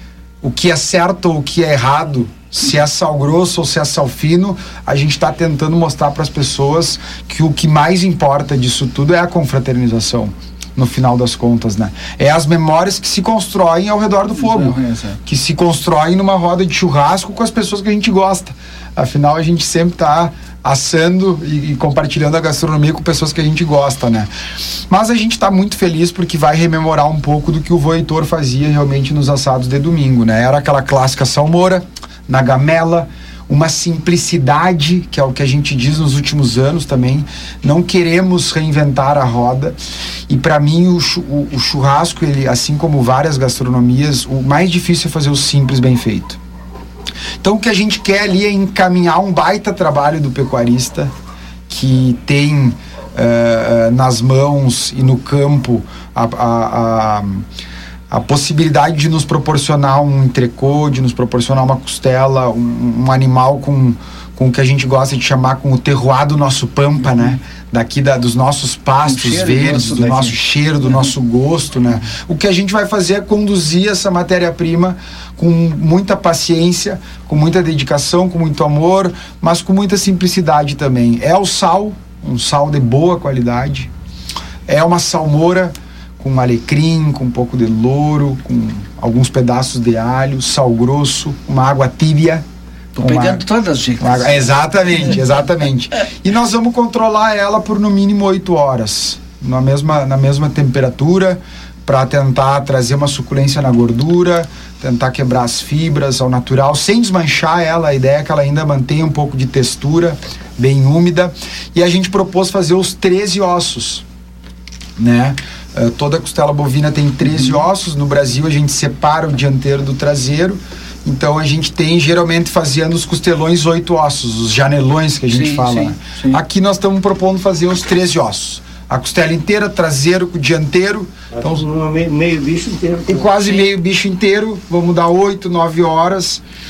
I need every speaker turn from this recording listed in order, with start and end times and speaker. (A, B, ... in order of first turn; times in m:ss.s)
0:00.4-0:24.3 A
0:14.4-0:15.2 B
0:24.9-0:39.8 A
0:40.3-0:46.4 A
0:47.4-0:51.1 A
0:51.7-0:57.4 A
0:58.1-1:23.9 A
1:09.0-1:10.4 B
1:24.7-1:32.4 A
1:33.0-1:34.6 B
1:33.0-1:33.4 A
1:34.0-1:54.0 A
1:55.0-2:11.6 A
2:05.3-2:06.4 B
2:11.3-2:13.6 C
2:13.1-2:16.4 A